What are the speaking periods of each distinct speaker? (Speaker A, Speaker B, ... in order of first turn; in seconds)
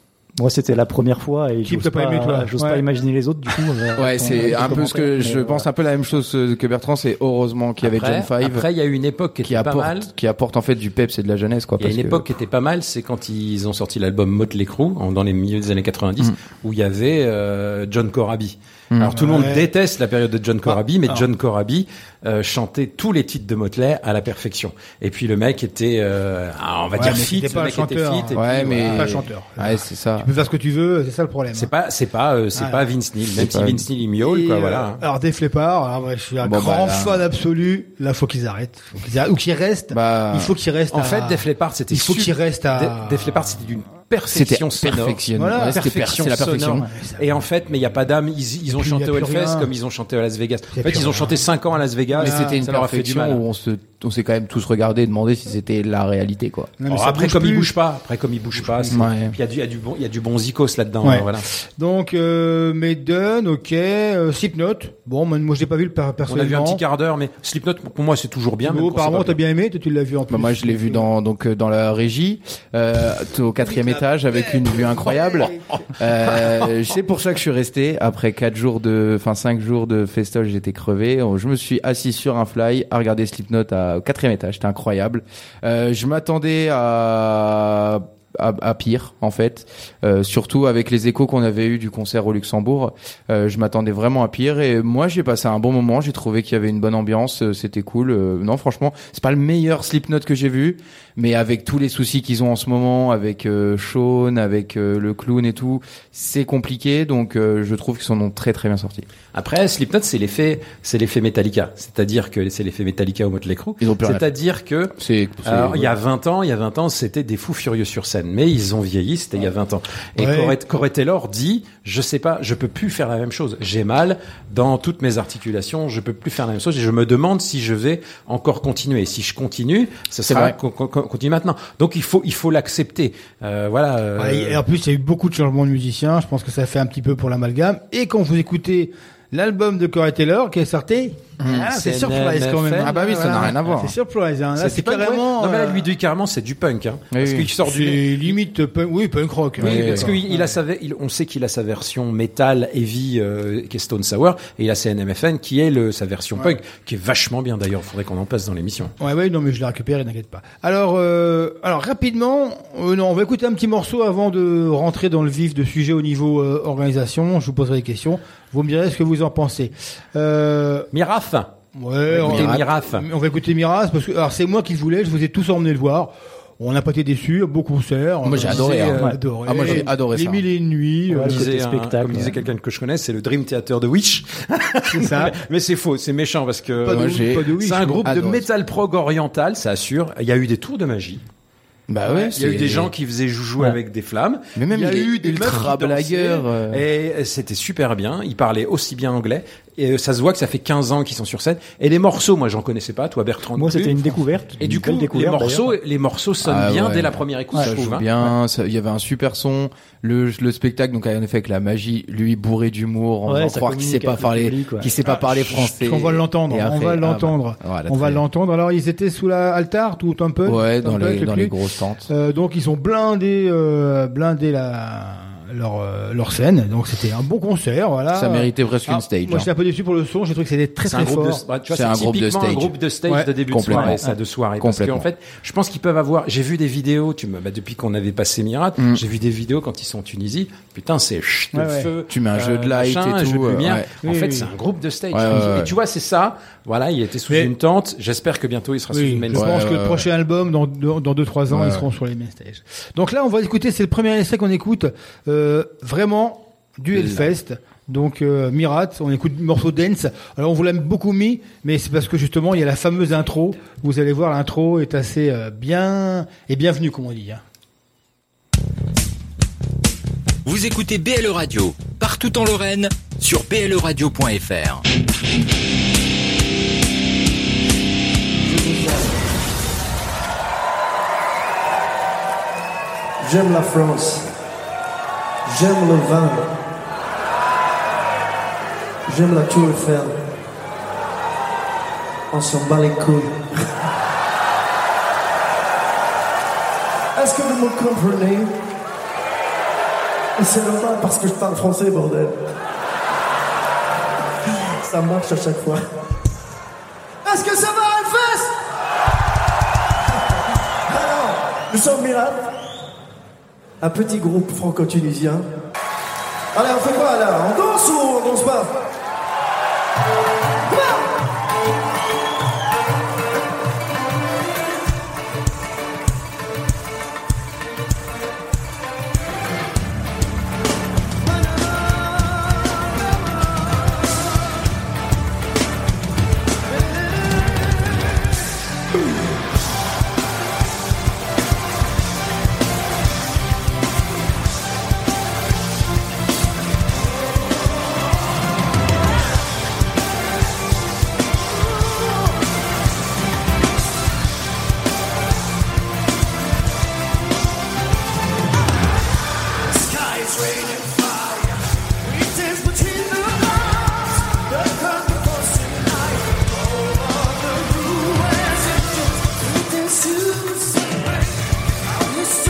Speaker A: 0.4-5.7, 181.1-182.4, 203.6-205.8, 213.3-214.9
Speaker B: 1.6-2.9, 19.1-19.7, 20.7-21.3, 26.9-31.7, 32.6-32.9, 34.2-43.6, 45.4-45.8, 46.8-47.2, 48.7-49.7, 50.7-51.4, 52.1-52.6, 56.8-57.7, 58.6-59.0, 61.0-66.8, 68.7-71.0, 73.7-75.6, 120.2-120.6, 134.2-145.9, 147.6-150.6, 159.0-170.9, 171.8-181.5, 184.9-185.4, 186.8-188.1, 194.7-195.7, 215.0-221.5, 222.1-231.4, 233.1-233.8, 241.5-241.9, 244.0-244.5, 248.9-267.4
Speaker C: 4.0-8.7, 9.4-12.2, 18.9-19.2, 28.3-30.3, 33.4-33.9, 36.4-37.3, 39.9-40.5, 44.3-46.9, 52.2-56.7, 58.9-59.4, 70.3-109.1, 113.8-114.2, 115.0-116.0, 130.3-130.6, 141.4-141.7, 142.8-143.9, 147.1-147.5, 149.6-150.1, 172.2-172.7, 178.2-180.4, 186.9-187.5, 188.0-188.5, 191.9-192.9, 194.6-196.9, 206.4-218.2, 220.4-222.1, 228.1-229.5, 231.7-232.7, 233.5-234.0, 234.6-235.1, 238.8-239.0, 242.1-243.9, 245.1-245.7, 249.3-250.1, 251.5-251.9, 256.9-257.3
Speaker D: 7.8-10.1, 11.8-29.1, 31.5-35.0, 40.9-53.4, 56.9-61.5, 66.3-69.4, 109.3-114.9, 115.4-134.6, 141.6-143.6, 144.6-148.4, 149.6-158.9, 170.9-171.5, 172.1-173.1, 178.4-179.9, 181.2-191.2, 192.1-208.1, 230.9-249.6
Speaker E: 270.4-274.8
Speaker F: 278.4-279.2, 283.2-284.3, 285.5-286.6, 289.1-290.3, 292.3-293.7, 297.1-298.6, 300.4-302.5, 304.5-305.9, 307.2-308.6, 310.9-312.6, 313.8-315.5, 316.5-318.8, 320.7-321.1, 362.5-363.6, 364.7-368.5